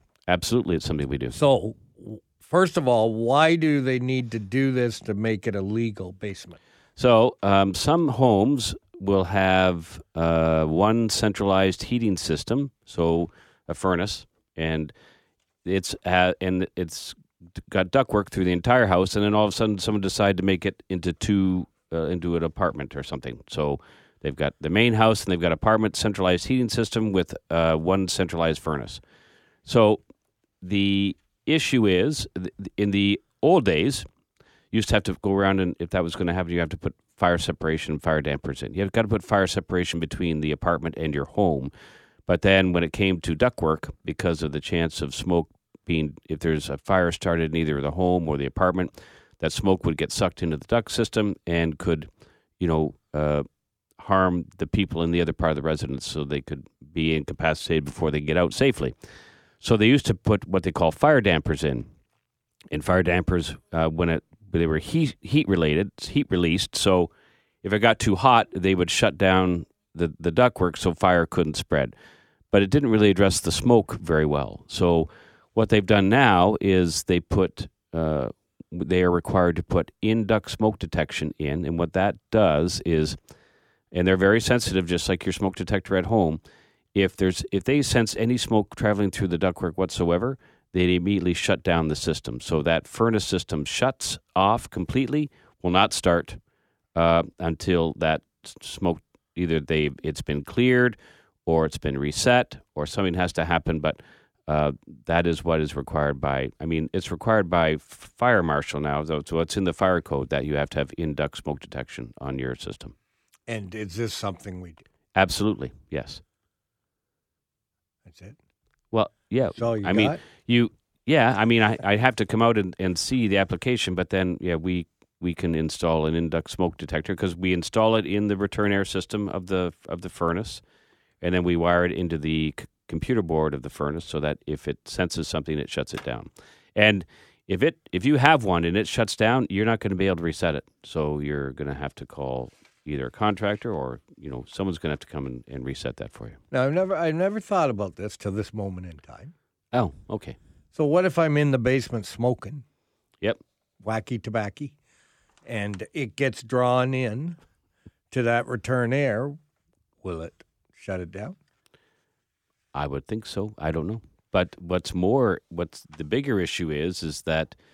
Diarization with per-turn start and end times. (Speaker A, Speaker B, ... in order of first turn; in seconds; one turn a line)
Speaker A: 0.3-1.4
Speaker B: 1.3-6.6
Speaker A: 7.0-14.9
Speaker A: 15.6-29.0
Speaker A: 29.6-30.0
Speaker A: 30.6-34.1
Speaker A: 34.7-41.7
Speaker A: 42.3-53.4
Speaker A: 54.0-58.9
Speaker A: 59.6-61.9
Speaker A: 62.7-67.1
Speaker A: 67.6-71.9
Speaker A: 72.5-83.2
Speaker A: 83.9-86.4
Speaker A: 86.9-96.4
Speaker A: 96.9-112.9
Speaker B: 113.5-114.8
Speaker A: 115.1-116.2
Speaker B: 118.0-118.4
Speaker A: 118.9-130.6
Speaker B: 119.6-120.2
Speaker A: 131.2-146.4
Speaker B: 146.5-149.3
Speaker A: 149.7-150.3
Speaker B: 150.7-152.6
Speaker B: 153.8-154.7
Speaker B: 155.4-157.4
Speaker B: 158.1-159.4
Speaker B: 160.0-161.3
Speaker A: 162.7-167.5